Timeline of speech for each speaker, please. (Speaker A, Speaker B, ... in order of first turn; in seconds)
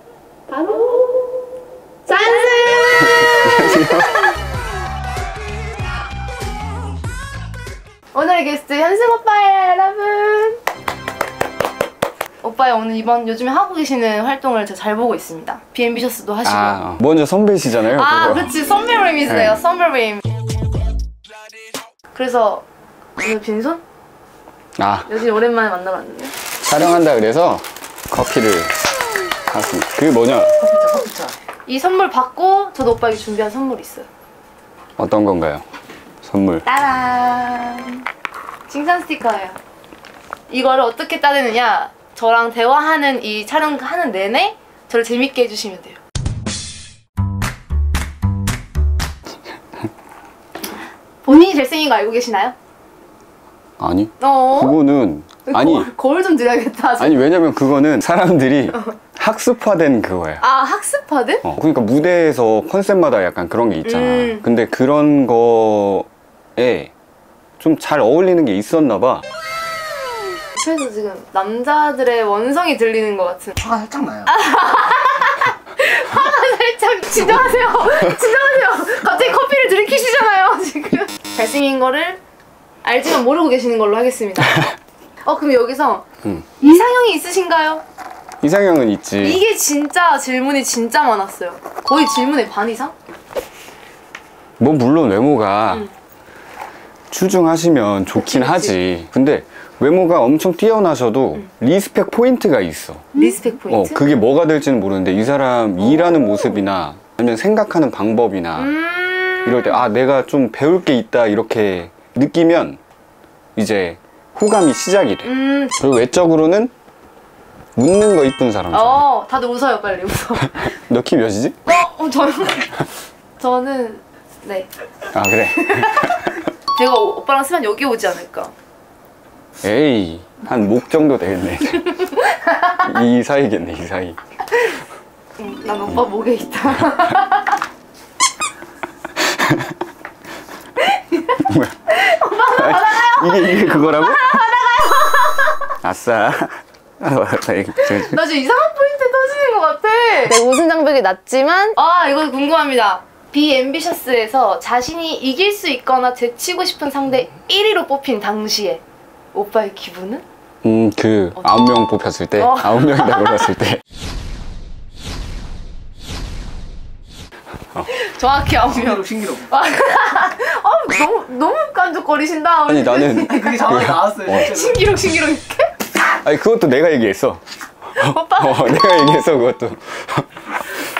Speaker A: 0.5-1.4, 2.0-4.3, 8.1-10.6, 12.4-16.8, 17.9-20.2, 22.1-22.6, 23.2-23.8, 25.1-26.3, 30.8-34.1, 36.6-38.0, 38.7-39.6, 40.5-46.0, 51.2-52.5, 54.2-54.8, 55.5-57.2, 60.4-61.4, 63.8-64.4, 70.5-73.6, 74.2-82.2, 82.8-84.7, 85.2-86.0, 86.6-87.8, 89.2-92.9, 98.1-98.7, 103.1-104.2, 105.8-106.4, 108.5-109.8, 115.2-115.8, 118.7-120.8, 121.6-122.9, 123.4-124.7, 125.5-128.5, 132.0-132.9, 135.4-137.6, 140.9-145.7, 147.8-160.2, 162.4-163.5, 167.8-173.7, 174.3-175.7, 177.9-179.0
Speaker B: 3.0-4.3, 16.4-18.5, 19.3-19.6, 24.8-25.1, 26.6-28.8, 29.5-30.6, 35.0-35.6, 36.2-36.6, 53.8-55.9, 57.0-60.4, 61.4-66.9, 67.6-69.2, 88.4-89.4, 94.6-95.9, 97.1-108.7, 109.4-112.8, 113.5-116.7, 117.8-119.0, 120.5-121.6, 125.1-126.4, 129.6-132.0, 132.8-134.2, 139.2-139.7, 141.4-144.4, 145.8-148.2, 160.6-163.8, 172.7-174.5, 176.0-177.4, 177.9-180.8
Speaker C: 73.6-74.4, 168.7-169.5, 173.2-174.9